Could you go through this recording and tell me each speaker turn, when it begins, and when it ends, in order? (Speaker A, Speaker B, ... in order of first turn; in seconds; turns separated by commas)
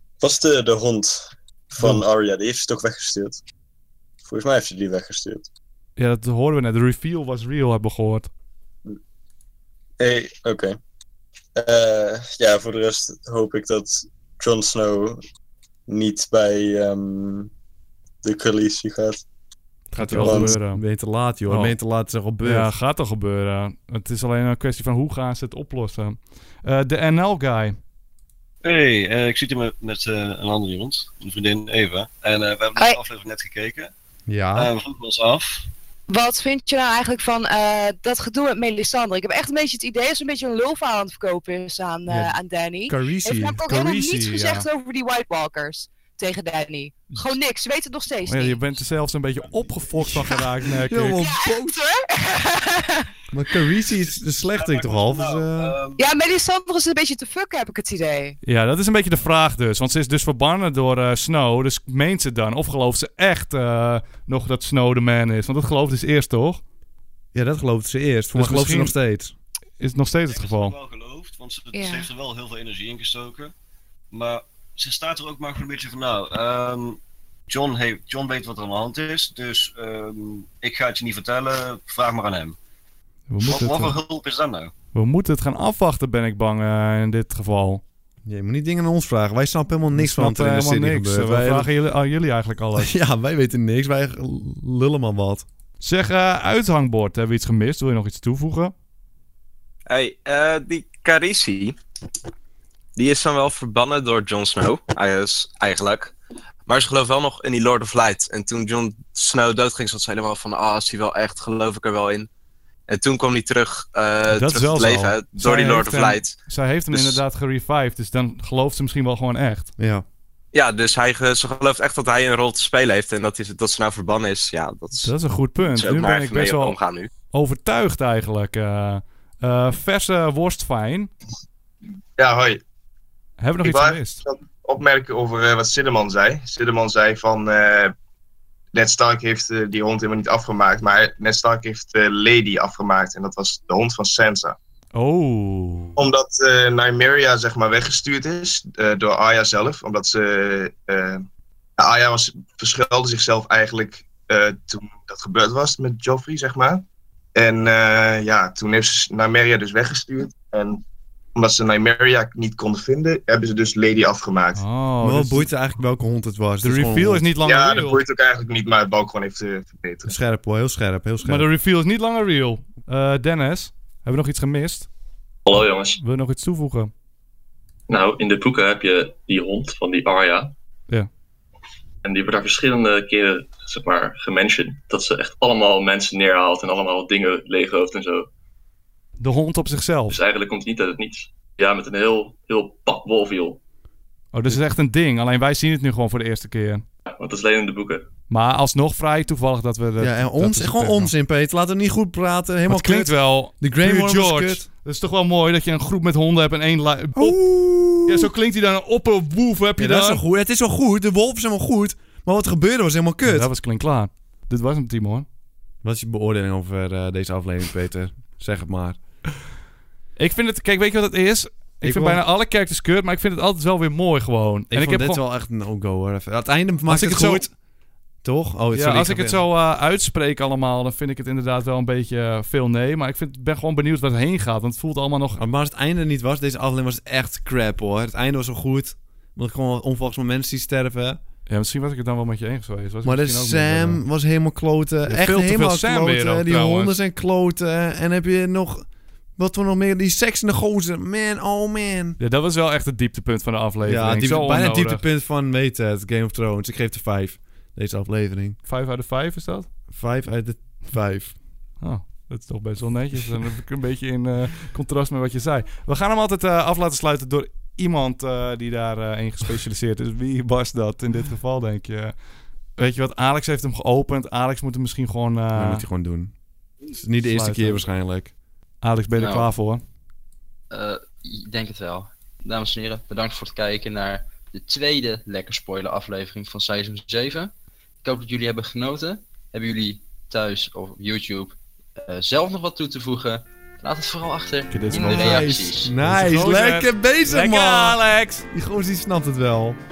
Speaker A: 0.2-3.4, Speaker A: 4.2-5.5, Speaker B: 6.0-8.3, Speaker A: 10.0-10.8, Speaker A: 11.6-15.2, Speaker A: 15.9-17.5, Speaker A: 18.2-19.2, Speaker C: 19.9-22.7, Speaker B: 20.0-20.8, Speaker A: 20.2-20.6, Speaker B: 21.4-21.8, Speaker B: 22.4-27.8, Speaker D: 28.6-33.9, Speaker C: 34.3-34.7, Speaker D: 34.5-35.6, Speaker E: 36.1-48.6, Speaker C: 42.9-43.6, Speaker B: 43.7-44.6, Speaker B: 48.2-51.2, Speaker C: 50.0-51.8, Speaker E: 50.1-50.4, Speaker E: 51.1-53.1, Speaker C: 53.3-55.8, Speaker D: 54.4-56.0, Speaker E: 56.0-58.4, Speaker B: 58.4-66.6, Speaker C: 67.3-69.3, Speaker B: 68.3-69.0, Speaker B: 69.8-70.8, Speaker D: 70.3-73.5, Speaker E: 71.7-72.1, Speaker D: 74.1-82.6, Speaker B: 83.3-84.0, Speaker D: 83.4-84.7, Speaker B: 84.9-87.8, Speaker C: 88.2-91.7, Speaker B: 89.9-92.9, Speaker C: 92.8-95.5, Speaker B: 95.8-98.7, Speaker F: 99.9-101.7, Speaker F: 103.0-106.1, Speaker F: 106.7-112.3, Speaker F: 112.9-116.2, Speaker B: 114.3-119.7, Speaker C: 119.8-120.0, Speaker F: 120.5-125.0, Speaker B: 125.0-126.7, Speaker F: 125.8-127.1, Speaker B: 127.3-131.1, Speaker G: 132.2-132.6, Speaker B: 133.4-134.2, Speaker G: 133.6-137.9, Speaker G: 138.7-144.6, Speaker B: 144.9-146.0, Speaker G: 146.0-151.2, Speaker G: 151.8-156.8, Speaker G: 157.3-160.8, Speaker G: 161.3-164.6, Speaker B: 164.5-165.5, Speaker C: 165.0-167.3, Speaker B: 166.6-168.0, Speaker G: 167.4-170.1, Speaker C: 170.1-171.4, Speaker B: 171.2-174.9, Speaker H: 175.4-176.0, Speaker B: 176.0-176.9, Speaker H: 177.9-180.5, Speaker H: 182.0-188.3, Speaker B: 189.2-190.2, Speaker H: 190.1-193.6, Speaker B: 194.3-196.8, Speaker H: 197.2-198.1, Speaker B: 198.3-201.1, Speaker C: 200.0-204.7, Speaker B: 202.7-207.4, Speaker C: 207.2-208.3, Speaker B: 208.0-210.2, Speaker C: 209.8-213.5, Speaker B: 213.2-215.2, Speaker C: 215.8-219.0, Speaker B: 220.2-225.2, Speaker C: 221.8-222.2, Speaker C: 224.7-227.5, Speaker B: 226.9-227.5, Speaker C: 228.2-229.4, Speaker B: 228.7-235.4, Speaker C: 235.3-241.2, Speaker B: 241.5-244.0, Speaker C: 243.0-252.2, Speaker B: 245.1-246.9, Speaker B: 252.2-255.0, Speaker C: 253.8-258.6, Speaker B: 258.6-259.7, Speaker C: 259.9-261.4, Speaker B: 261.8-272.2, Speaker B: 272.7-275.8, Speaker C: 275.5-276.3, Speaker C: 276.9-278.3, Speaker B: 277.2-277.8, Speaker B: 278.8-279.8, Speaker I: 279.2-279.5, Speaker I: 280.7-287.5, Speaker I: 288.0-295.9, Speaker B: 294.7-298.4, Speaker C: 294.9-299.8